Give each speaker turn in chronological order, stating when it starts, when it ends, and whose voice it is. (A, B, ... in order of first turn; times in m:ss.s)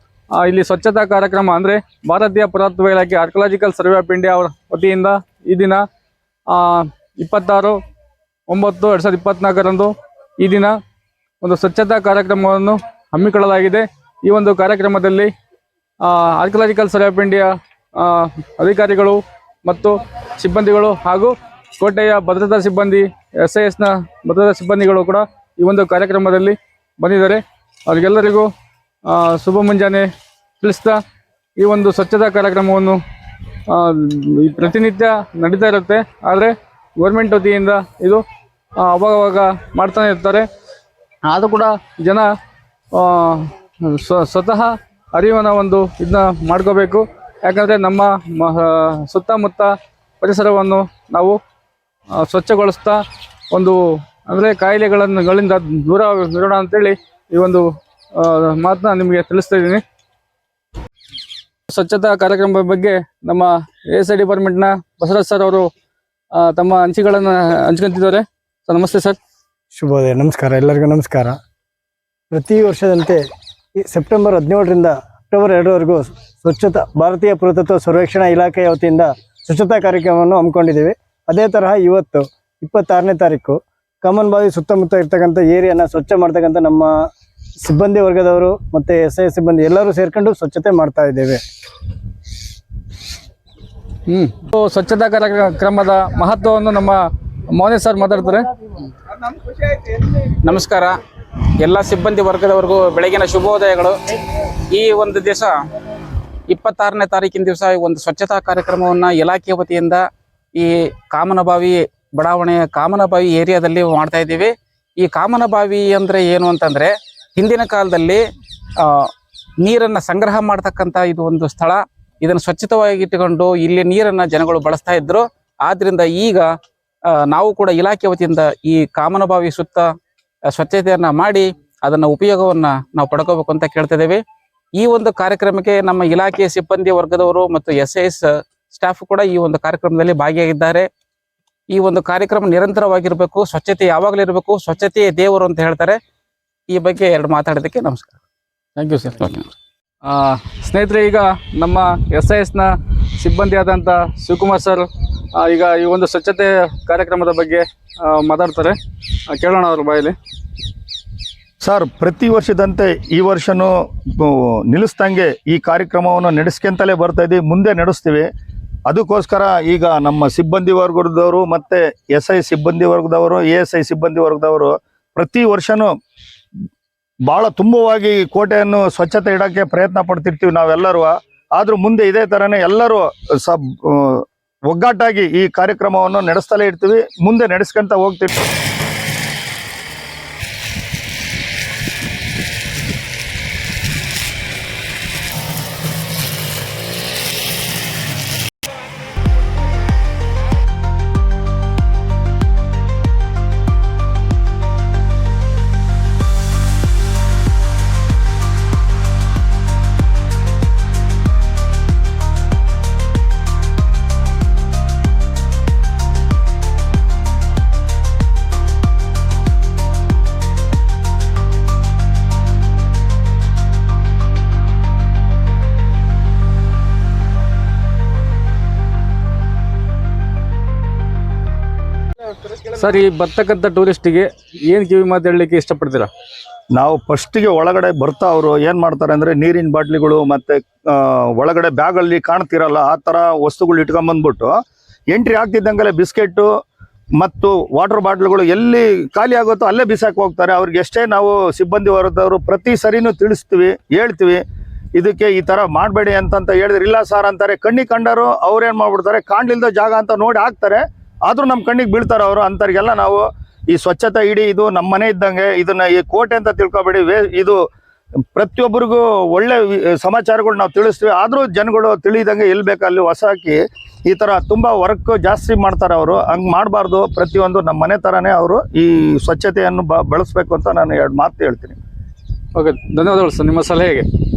0:00.3-0:05.8 A
0:06.5-0:07.8 A
0:08.5-0:10.8 A
0:11.4-0:15.3 A
0:16.0-0:28.5 A
0:29.1-0:30.1 A
0:30.6-0:31.0 A
0:31.6-0:33.0 A
0:33.7-0:38.2 A
0:38.8-0:40.4 A
0:41.2-0:42.3 A
0:42.9-0:51.4 A
0:52.2-0:59.8 A
1:01.7-1:05.7 A
1:06.3-1:09.2 A
1:09.8-1:11.4 B
1:12.3-1:13.2 B
1:13.8-1:26.9 B
1:27.6-1:31.4 B
1:34.1-1:38.5 A
1:40.1-1:40.9 C
1:41.6-1:44.0 C
1:44.7-1:45.6 C
1:46.5-1:50.0 C
1:50.5-1:58.2 C
1:58.8-1:59.1 C
1:59.6-2:06.5 C
2:07.1-2:09.9 C
2:10.5-2:14.2 C
2:14.8-2:20.9 C
2:21.7-2:26.0 C
2:26.7-2:28.2 C
2:28.8-2:29.2 A
2:29.2-2:29.5 C
2:30.0-2:38.8 A
2:39.3-2:40.1 A
2:41.6-2:48.3 D
2:48.9-2:55.9 D
2:57.3-3:08.4 D
3:52.6-3:56.1 A
3:56.7-4:04.6 D
4:05.1-4:06.5 D
4:07.2-4:14.4 D
4:14.9-4:27.6 D
4:28.3-4:41.8 D
4:42.5-4:44.1 A